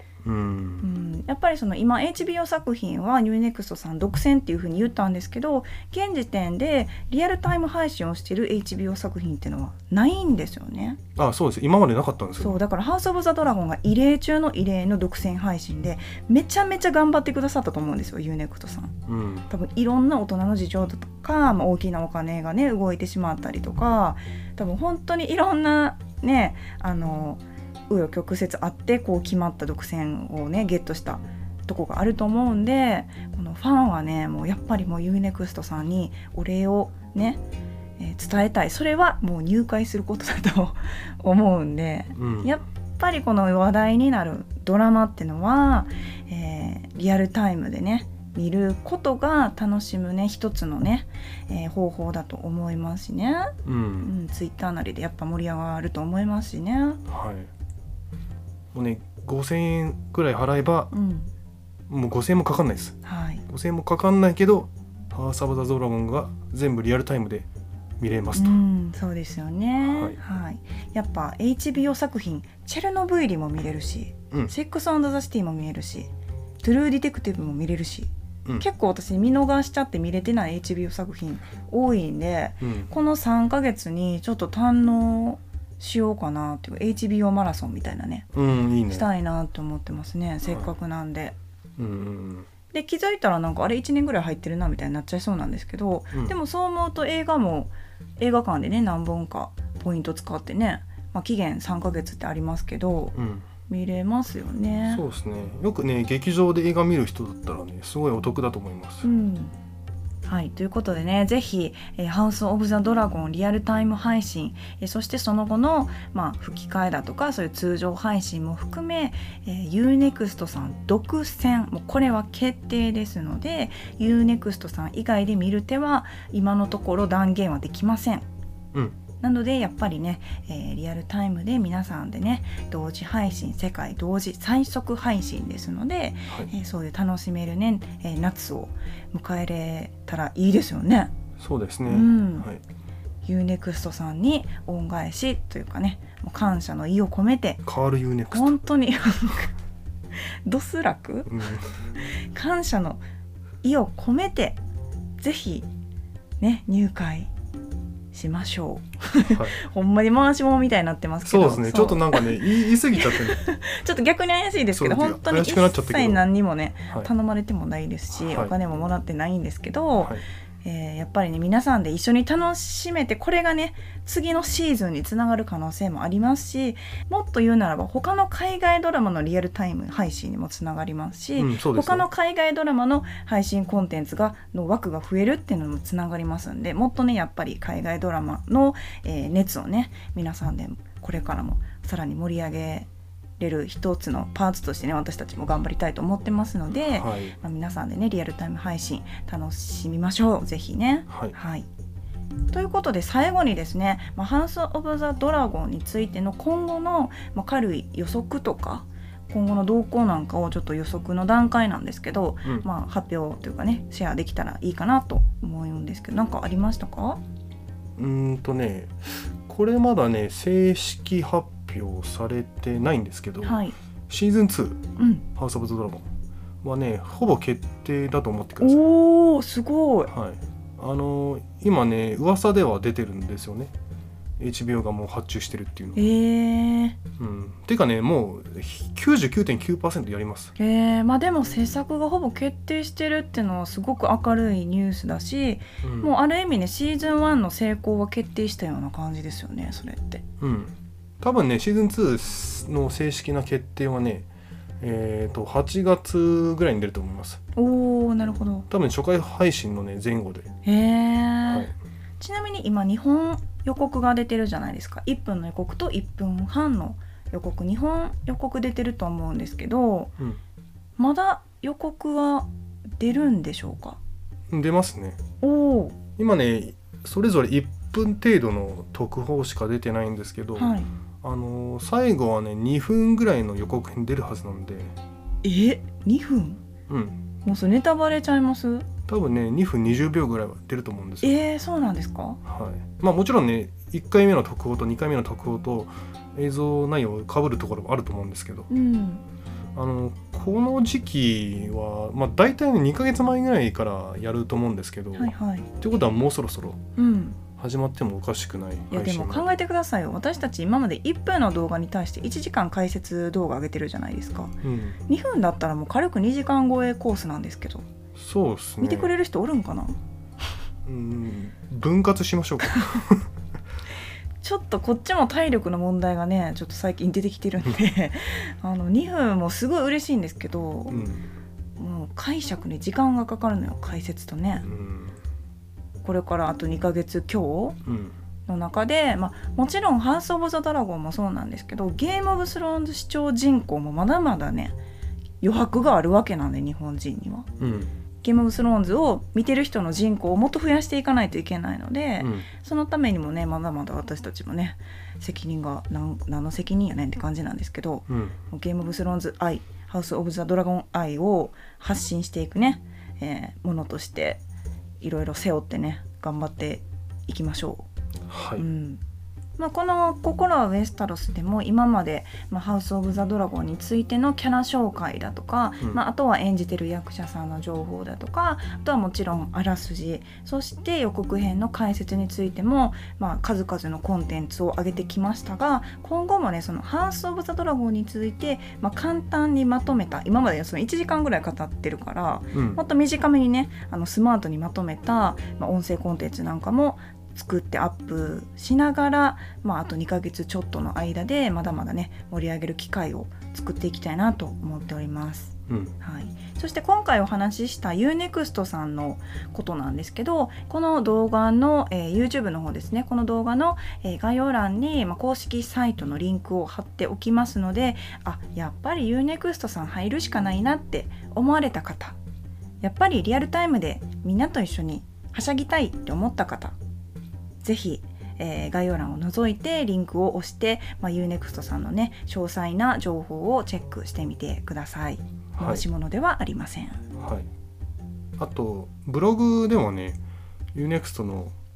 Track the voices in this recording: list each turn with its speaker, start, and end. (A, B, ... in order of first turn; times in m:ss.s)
0:00.2-0:00.9 A
0:00.8-0:11.0 B
0:11.2-0:12.6 A
0:12.4-0:19.0 B
0:19.1-0:19.5 A
0:19.5-0:37.4 B
0:38.0-0:57.0 B
0:42.1-0:42.5 A
0:53.6-0:54.1 A
0:57.1-0:57.5 A
0:58.7-1:00.9 A
1:00.9-1:01.3 B
1:01.9-1:03.0 A
1:03.0-1:03.4 B
1:03.5-1:07.5 A
1:08.0-1:08.6 A
1:08.3-1:16.1 B
1:09.8-1:10.2 A
1:16.6-1:28.3 B
1:22.6-1:22.9 A
1:28.3-1:29.1 A
1:28.9-1:31.4 B
1:31.8-1:32.5 A
1:32.7-1:43.2 B
1:43.1-1:43.4 A
1:43.7-1:45.0 B
1:44.9-1:49.1 A
1:49.0-1:49.5 B
1:50.3-2:08.2 B
2:09.2-2:21.1 B
2:21.4-2:22.6 A
2:21.9-2:22.5 B
2:23.2-2:27.6 B
2:27.6-2:28.6 A
2:28.3-2:29.5 B
2:30.2-2:31.4 B
2:31.3-2:31.7 A
2:32.0-2:33.0 B
2:33.6-2:34.6 B
2:35.2-2:35.7 B
2:36.4-2:37.3 B
2:38.1-3:12.9 B
2:39.2-2:39.6 A
2:41.2-2:43.4 A
2:44.7-2:46.2 A
2:48.2-2:48.5 A
2:50.0-2:50.2 A
3:01.4-3:02.1 A
3:13.4-3:21.7 B
3:16.9-3:17.4 A
3:21.1-3:21.3 A
3:22.5-3:37.2 B
3:38.0-3:44.8 A
3:43.4-3:43.8 B
3:45.0-3:45.2 B
3:45.3-3:46.1 A
3:46.6-3:48.8 A
3:48.6-3:50.1 B
3:50.1-3:53.7 A
3:54.4-3:56.1 A
3:56.0-3:57.0 B
3:57.2-4:00.5 A
4:00.6-4:10.2 B
4:05.8-4:06.1 A
4:10.4-4:14.3 A
4:14.8-4:17.4 A
4:17.6-4:18.7 B
4:18.7-4:20.5 A
4:20.6-4:30.1 B
4:21.4-4:21.7 A
4:31.0-4:34.0 B
4:34.5-4:35.2 A
4:35.4-4:36.0 B
4:36.2-4:44.9 A
4:40.6-4:40.9 B
4:45.4-4:46.6 B
4:46.9-4:47.2 A
4:47.4-4:48.9 B
4:49.1-4:51.4 A
4:51.2-4:52.4 B
4:52.4-4:58.7 A
4:58.7-4:59.2 B
4:59.7-5:06.8 A
5:05.2-5:05.7 B
5:07.0-5:07.4 B
5:07.5-5:09.5 A
5:08.9-5:17.9 B
5:14.6-5:15.0 A
5:18.2-5:19.1 A
5:18.8-5:20.0 B
5:20.8-5:23.3 A
5:24.4-5:31.0 B
5:30.9-5:31.3 A
5:31.8-5:34.6 B
5:34.6-5:35.2 A
5:36.0-5:37.8 B
5:37.8-5:38.1 A
5:38.5-5:44.8 B
5:45.4-5:47.5 B
5:47.6-5:47.9 A
5:48.2-6:04.4 B
5:52.2-5:52.5 A
5:58.1-5:58.4 A
6:05.0-6:07.9 B
6:08.3-6:08.6 A
6:08.6-6:09.0 B
6:09.6-7:02.2 B
6:32.5-6:32.8 A
6:45.7-6:45.9 A
7:02.8-7:06.7 B
7:07.6-7:17.0 B
7:15.5-7:15.8 A
7:17.2-7:17.5 A
7:18.4-7:20.2 A
7:20.7-7:21.5 A